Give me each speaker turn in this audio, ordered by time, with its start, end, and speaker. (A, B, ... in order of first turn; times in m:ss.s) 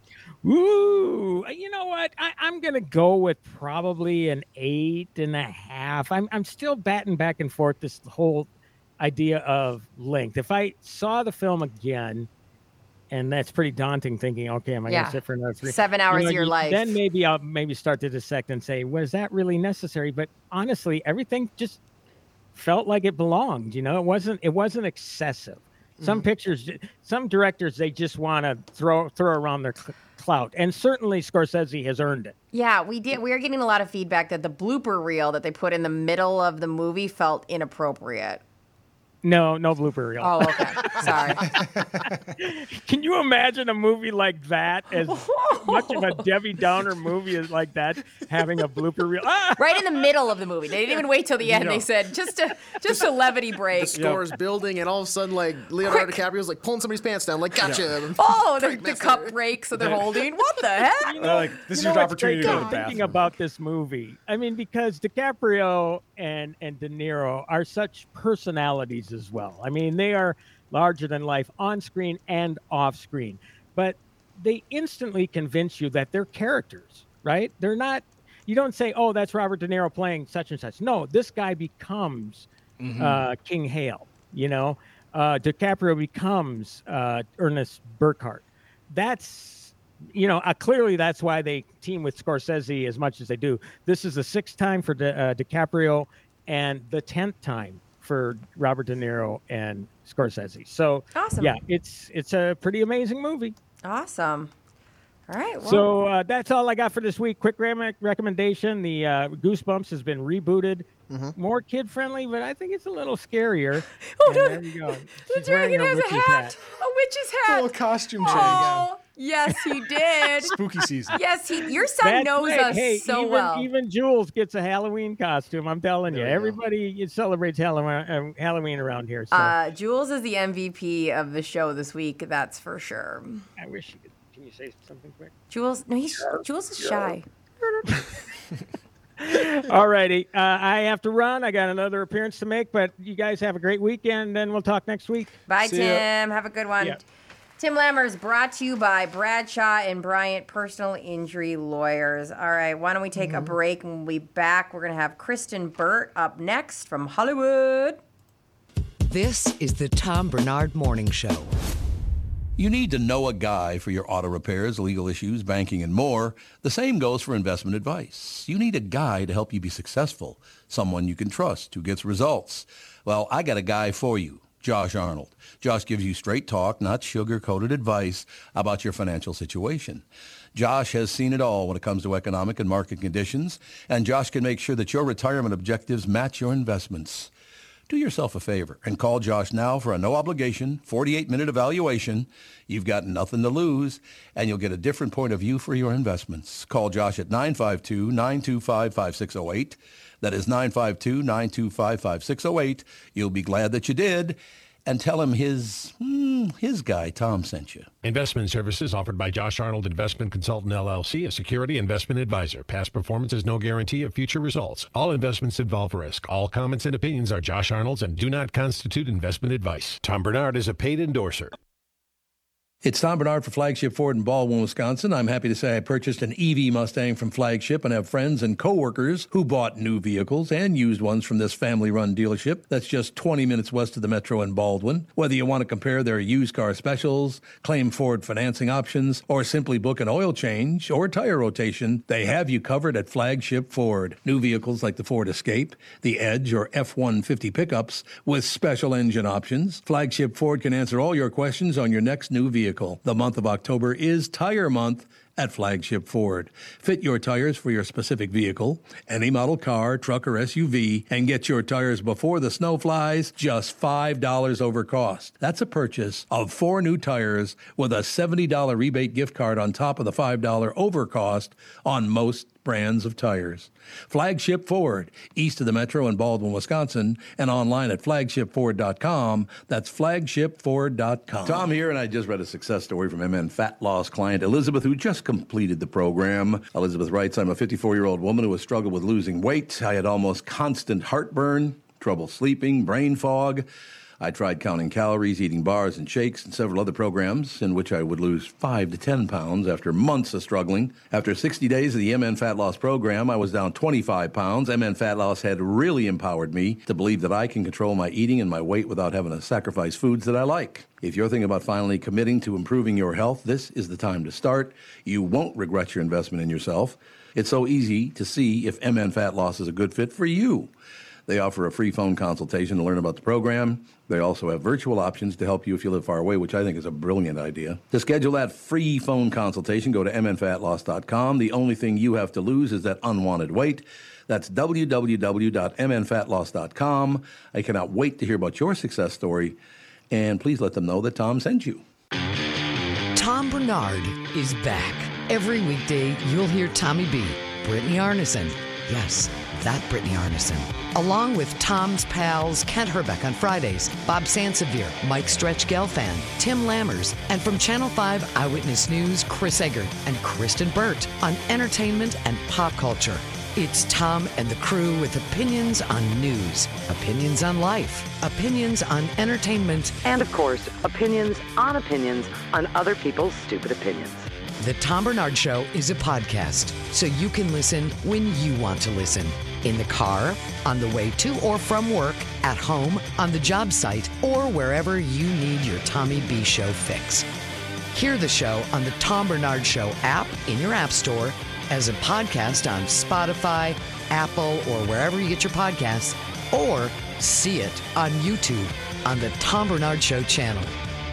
0:00.4-0:08.5 A
0:09.0-0:12.3 A
0:13.1-0:21.8 A
0:14.8-0:16.9 B
0:22.5-0:32.3 A
0:26.0-0:26.3 C
0:32.5-0:38.4 B
0:39.2-0:41.1 A
0:40.2-0:41.6 B
0:42.0-0:49.6 A
0:45.0-0:46.2 B
0:49.6-0:54.0 B
0:51.4-0:51.8 D
0:53.8-0:59.3 C
0:53.9-0:54.2 D
0:55.8-0:56.2 B
0:57.6-0:57.9 D
0:58.2-1:01.4 B
1:01.0-1:22.5 A
1:01.2-1:03.3 D
1:22.8-1:23.2 D
1:23.0-1:43.5 A
1:41.1-1:41.6 B
1:43.8-1:44.5 B
1:45.3-1:45.9 B
1:45.6-1:56.5 A
1:54.1-2:00.5 B
1:57.4-1:58.9 D
2:00.4-2:01.2 D
2:01.1-2:03.7 B
2:02.0-2:09.6 A
2:06.2-2:06.5 C
2:09.3-2:13.4 B
2:13.6-2:15.3 A
2:15.5-2:17.2 B
2:16.2-2:17.2 A
2:17.8-2:18.1 A
2:19.2-2:25.3 A
2:25.5-2:27.0 B
2:25.6-2:26.0 D
2:27.6-2:38.0 B
2:39.0-2:41.5 E
2:42.6-3:00.0 F
3:00.5-3:07.3 F
3:07.9-3:27.9 F
3:28.0-3:41.6 G
3:42.8-4:53.6 F
4:54.2-5:20.7 F
5:21.3-5:39.6 F
5:40.1-5:41.8 F
5:43.1-6:27.3 E
6:27.9-6:40.8 E